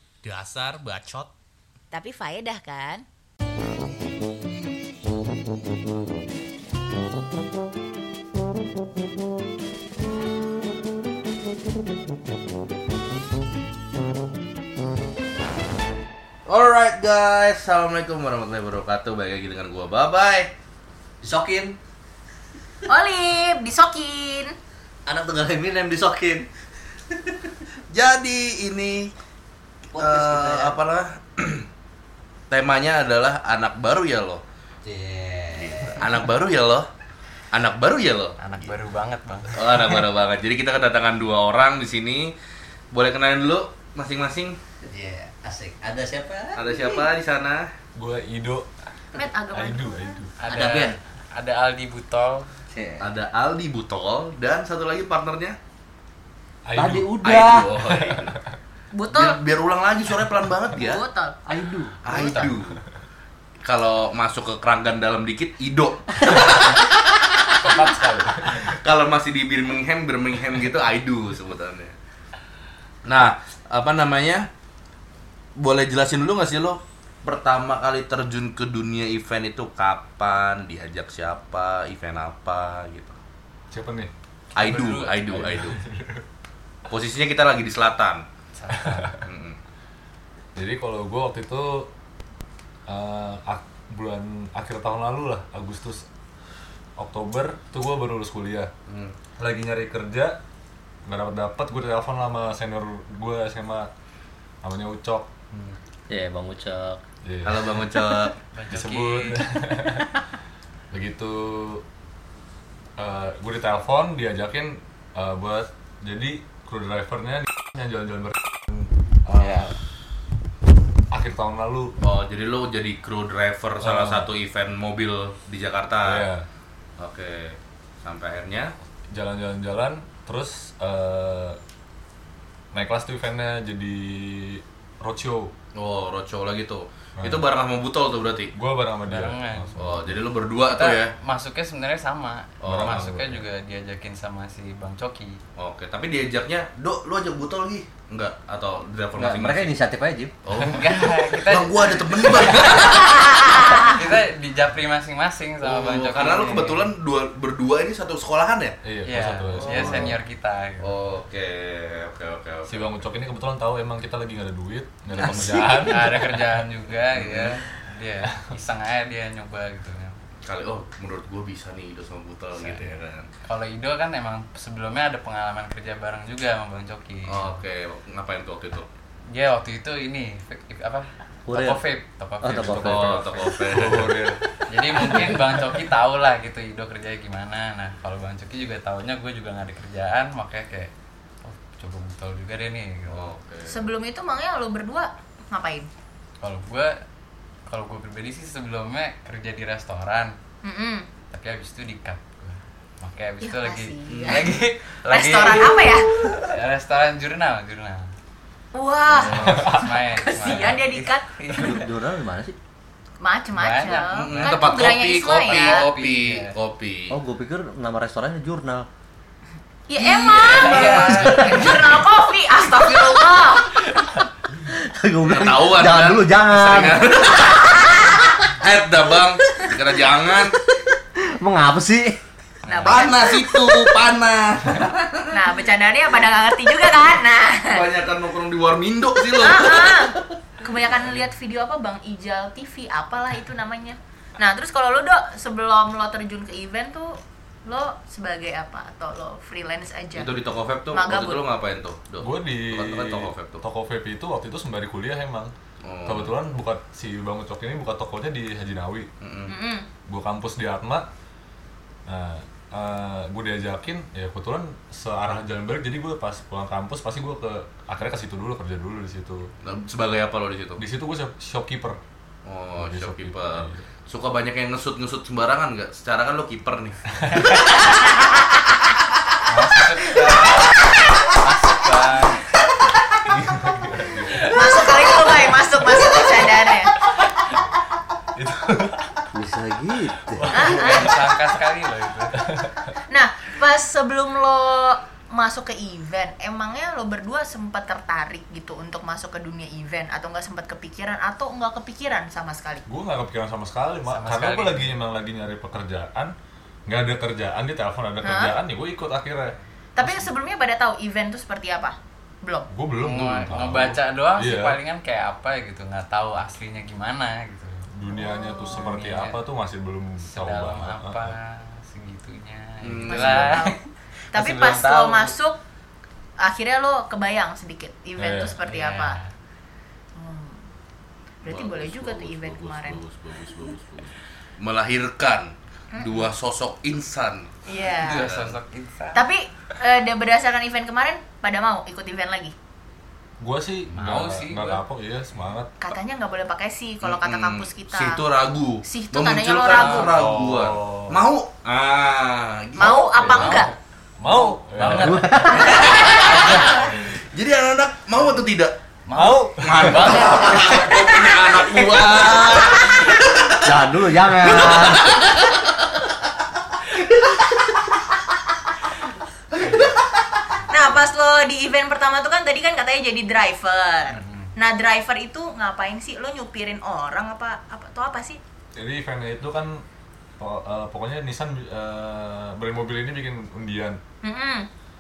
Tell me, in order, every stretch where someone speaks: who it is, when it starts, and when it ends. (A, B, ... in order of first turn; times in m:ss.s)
0:00.2-0:01.3 A
0:01.9-0:03.0 B
0:16.5-0:20.5 A
0:21.2-0:21.8 C
0:22.9-0:24.6 B
0:25.1-0:26.5 C
0:27.1-0:27.5 C
0:27.9-0:29.1 A
0:29.9-0:30.8 C
0:30.0-0:31.7 A
0:32.5-0:34.4 A
0:34.8-0:36.1 C
0:35.6-0:36.9 A
0:37.5-0:38.7 A
0:38.4-0:39.8 D
0:39.6-0:42.3 A
0:42.9-0:44.6 A
0:44.8-0:47.1 C
0:46.6-0:47.7 A
0:48.0-0:48.7 E
0:49.2-0:50.0 B
0:49.5-0:50.3 E
0:50.4-0:52.5 D
0:50.5-0:51.0 C
0:52.7-0:53.1 C
0:53.0-0:55.6 A
0:56.6-0:57.2 E
0:56.8-0:57.7 C
0:57.2-0:58.4 A
0:57.8-0:58.5 E
0:58.9-0:59.4 B
0:59.1-1:01.0 A
1:00.7-1:01.4 B
1:01.5-1:02.0 C
1:02.0-1:02.8 A
1:02.1-1:02.4 D
1:03.6-1:07.7 A
1:06.4-1:06.6 E
1:07.6-1:08.8 E
1:08.4-1:12.0 A
1:13.0-1:14.5 A
1:15.6-1:23.2 A
1:23.7-1:24.1 E
1:24.6-1:25.8 A
1:24.6-1:25.5 D
1:25.3-1:26.2 E
1:26.9-1:28.2 A
1:28.6-1:29.2 D
1:28.7-1:29.2 E
1:29.2-1:29.6 A
1:30.6-1:31.9 E
1:32.9-1:36.0 E
1:37.0-1:38.7 E
1:38.9-1:39.2 A
1:39.4-1:40.4 E
1:41.1-1:43.9 E
1:44.6-1:45.3 E
1:45.5-1:45.8 A
1:46.1-1:47.0 C
1:47.2-1:48.1 E
1:47.4-1:48.4 A
1:48.5-1:49.4 D
1:48.7-1:50.1 E
1:50.9-1:51.8 E
1:53.0-1:59.7 E
1:59.4-1:59.7 A
1:59.4-1:59.7 C
2:01.1-2:02.0 E
2:02.0-2:06.3 A
2:03.8-2:04.3 E
2:06.0-2:06.5 E
2:07.0-2:08.7 A
2:09.1-2:11.6 E
2:12.7-2:15.5 E
2:15.8-2:18.5 A
2:17.2-2:17.4 E
2:18.5-2:20.2 E
2:19.1-2:19.7 D
2:19.8-2:21.1 A
2:20.7-2:25.4 D
2:22.6-2:23.1 A
2:22.6-2:23.4 E
2:25.6-2:29.7 A
2:29.2-2:30.3 C
2:30.4-2:33.4 A
2:30.6-2:32.9 D
2:32.9-2:34.0 B
2:33.8-2:36.9 D
2:35.6-2:38.8 A
2:38.8-2:40.2 E
2:39.0-2:40.9 D
2:39.5-2:40.1 A
2:40.8-2:43.0 A
2:42.7-2:46.5 E
2:45.2-2:50.2 D
2:45.2-2:45.5 A
2:47.1-2:47.6 A
2:50.4-2:53.3 A
2:52.6-2:52.9 D
2:53.4-2:57.6 D
2:57.3-2:58.9 A
2:59.3-3:02.8 D
3:01.5-3:01.8 C
3:02.4-3:03.2 C
3:02.5-3:04.6 E
3:02.6-3:04.2 A
3:04.7-3:10.9 D
3:11.4-3:13.3 D
3:13.1-3:13.9 A
3:13.7-3:15.9 B
3:16.4-3:17.0 D
3:17.7-3:20.4 D
3:20.6-3:21.1 B
3:21.3-3:28.1 D
3:23.4-3:24.6 B
3:24.1-3:24.5 A
3:25.1-3:26.2 B
3:28.7-3:31.3 B
3:29.1-3:29.7 A
3:29.2-3:31.9 D
3:29.4-3:29.9 E
3:31.5-3:32.6 C
3:33.2-3:35.8 B
3:33.5-3:36.6 D
3:33.9-3:37.2 A
3:37.1-3:38.9 C
3:39.9-3:43.8 B
3:40.0-3:41.7 A
3:40.4-3:41.9 D
3:40.5-3:42.0 C
3:44.6-3:47.5 C
3:45.2-3:50.6 A
3:50.9-3:52.2 C
3:52.6-3:53.2 D
3:52.7-3:53.3 B
3:52.8-3:55.3 A
3:55.3-3:57.9 B
3:57.7-4:00.1 A
3:59.4-4:10.3 B
4:10.1-4:13.6 A
4:10.9-4:11.4 B
4:12.2-4:15.5 E
4:15.8-4:16.3 A
4:16.1-4:19.1 E
4:19.2-4:19.5 A
4:19.5-4:19.9 B
4:20.1-4:21.1 E
4:22.1-4:29.5 E
4:29.6-4:30.8 A
4:30.8-4:32.0 E
4:32.4-4:37.0 A
4:32.8-4:33.8 E
4:37.2-4:37.5 E
4:39.5-4:42.6 D
4:43.3-4:44.6 E
4:44.3-4:44.6 D
4:44.5-4:46.9 B
4:48.4-4:49.2 E
4:49.3-4:50.5 C
4:50.3-4:51.5 E
4:50.5-4:51.1 B
4:50.5-4:52.6 D
4:52.4-4:53.0 E
4:53.1-5:02.8 B
5:02.9-5:06.3 E
5:04.1-5:05.0 D
5:06.9-5:10.3 E
5:08.2-5:08.6 B
5:10.0-5:12.7 B
5:12.7-5:14.8 E
5:13.0-5:17.9 D
5:17.9-5:21.4 E
5:18.2-5:18.9 B
5:18.7-5:19.4 D
5:20.2-5:25.4 D
5:22.8-5:23.6 A
5:23.1-5:23.8 B
5:24.3-5:25.6 B
5:26.4-5:29.2 B
5:28.2-5:28.6 E
5:28.6-5:29.3 D
5:30.2-5:30.7 B
5:31.4-5:33.0 B
5:31.4-5:38.6 A
5:35.9-5:36.3 B
5:37.7-5:38.3 B
5:37.9-5:39.3 D
5:39.2-5:42.5 B
5:43.4-5:45.7 E
5:43.9-5:44.8 D
5:45.8-5:48.2 B
5:47.0-5:53.6 A
5:48.9-5:50.2 B
5:49.7-5:50.1 D
5:50.1-5:51.2 E
5:52.8-5:53.7 B
5:53.2-5:53.6 E
5:53.3-5:53.7 D
5:54.2-5:55.3 E
5:54.2-5:56.8 D
5:54.8-5:55.8 C
5:55.6-5:58.7 A
5:55.7-5:56.6 B
5:56.7-5:57.2 E
5:59.1-6:01.2 D
5:59.1-6:00.3 E
5:59.6-6:05.7 A
6:03.6-6:05.2 C
6:10.7-6:18.4 B
6:14.1-6:14.5 D
6:18.8-6:19.8 E
6:20.4-6:24.0 E
6:24.2-6:24.7 B